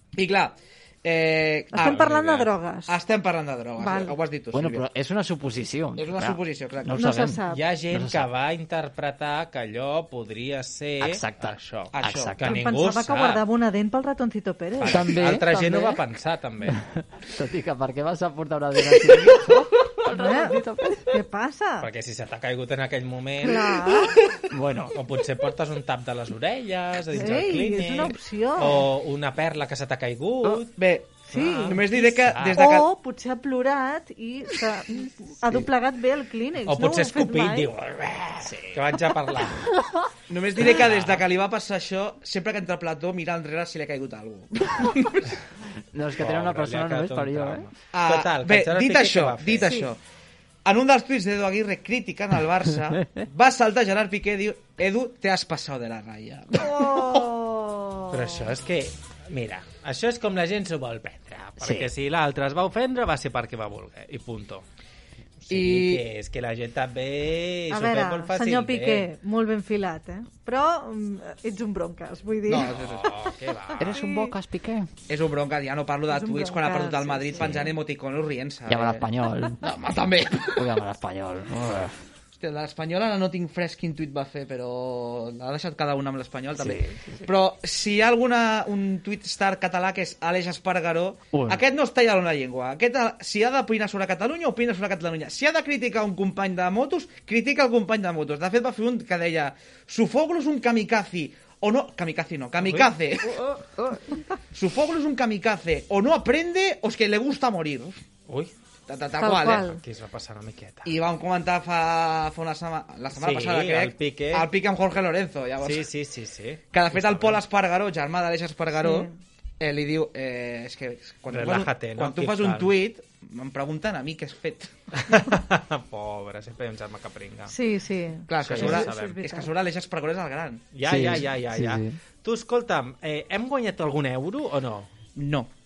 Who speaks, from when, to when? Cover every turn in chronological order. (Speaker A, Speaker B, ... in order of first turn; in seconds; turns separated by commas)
Speaker A: 0.1-4.8, Speaker B: 1.7-2.9, Speaker C: 1.8-2.5, Speaker B: 3.8-4.1, Speaker D: 4.5-7.4, Speaker A: 6.0-7.2, Speaker B: 6.9-7.6, Speaker C: 7.5-13.4, Speaker D: 7.9-8.3, Speaker D: 11.0-12.5, Speaker A: 11.9-12.3, Speaker B: 12.4-15.1, Speaker C: 14.8-16.8, Speaker D: 14.8-16.0, Speaker D: 16.7-21.2, Speaker B: 20.1-21.9, Speaker C: 21.8-23.9, Speaker B: 23.4-24.2, Speaker D: 24.5-25.0, Speaker C: 24.9-30.7, Speaker B: 27.1-28.9, Speaker A: 30.8-32.9, Speaker B: 31.3-31.8, Speaker C: 31.3-32.6, Speaker B: 32.4-37.7, Speaker C: 36.6-39.7, Speaker D: 38.4-38.8, Speaker D: 39.8-40.1, Speaker A: 40.3-45.3, Speaker C: 40.6-41.3, Speaker D: 45.9-47.7, Speaker C: 46.1-49.7, Speaker A: 47.9-50.0, Speaker B: 49.6-49.9, Speaker A: 50.6-57.3, Speaker B: 56.6-58.5, Speaker C: 58.1-64.6, Speaker D: 61.6-61.9, Speaker C: 65.4-69.1, Speaker A: 65.5-66.0, Speaker B: 67.7-72.7, Speaker A: 72.5-73.2, Speaker C: 72.7-74.0, Speaker D: 73.8-74.9, Speaker B: 73.9-74.3, Speaker A: 75.1-79.1, Speaker B: 76.1-77.7, Speaker D: 78.7-79.7, Speaker A: 79.6-80.7, Speaker D: 80.5-82.0, Speaker A: 82.3-103.5, Speaker D: 86.6-87.3, Speaker D: 91.3-91.6, Speaker C: 102.6-102.9, Speaker A: 104.5-108.0, Speaker C: 108.3-108.5, Speaker A: 108.9-109.7, Speaker B: 109.2-109.8, Speaker C: 109.3-111.0, Speaker A: 110.8-115.9, Speaker C: 113.1-114.5, Speaker C: 115.6-117.4, Speaker A: 116.7-124.7, Speaker B: 118.7-119.2, Speaker C: 121.3-122.7, Speaker C: 124.9-127.5, Speaker B: 127.5-129.5, Speaker A: 128.3-130.7, Speaker C: 128.4-129.2, Speaker C: 130.7-134.9, Speaker D: 130.8-131.9, Speaker A: 135.2-135.5